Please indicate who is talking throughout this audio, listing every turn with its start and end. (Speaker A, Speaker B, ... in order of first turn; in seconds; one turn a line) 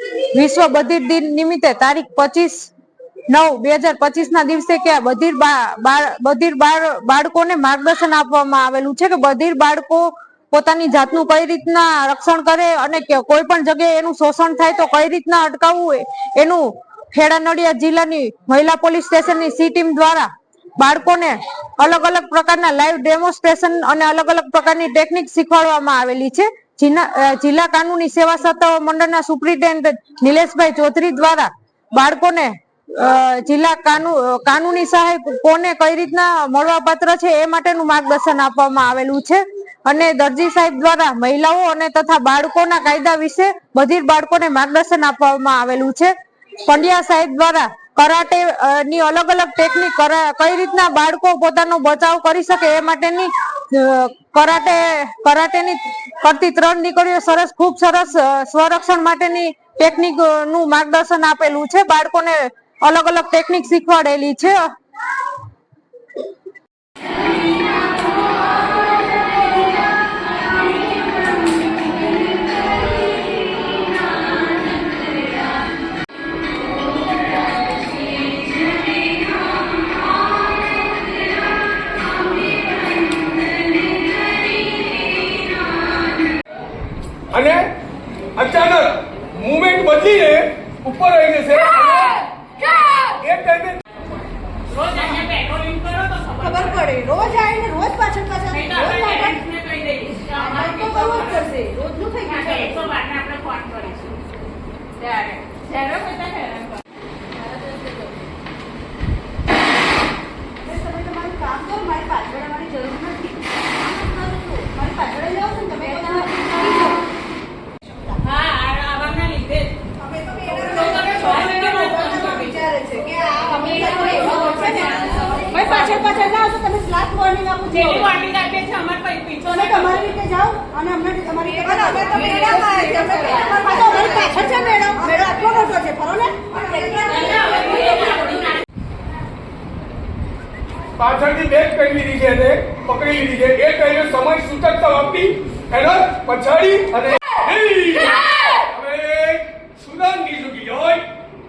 Speaker A: 0.3-2.7
Speaker A: 3.3-64.7
Speaker B: 87.3-87.7
Speaker B: 88.3-92.3
Speaker B: 92.9-93.8
Speaker C: 94.7-96.8
Speaker D: 96.5-99.3
Speaker C: 98.5-101.5
Speaker D: 100.6-102.8
Speaker C: 102.2-104.4
Speaker C: 105.0-106.8
Speaker D: 110.6-117.0
Speaker C: 118.2-119.8
Speaker D: 120.0-128.1
Speaker C: 120.7-122.5
Speaker C: 123.7-125.1
Speaker C: 127.7-130.1
Speaker D: 129.7-138.2
Speaker C: 137.3-138.3
Speaker B: 141.0-151.2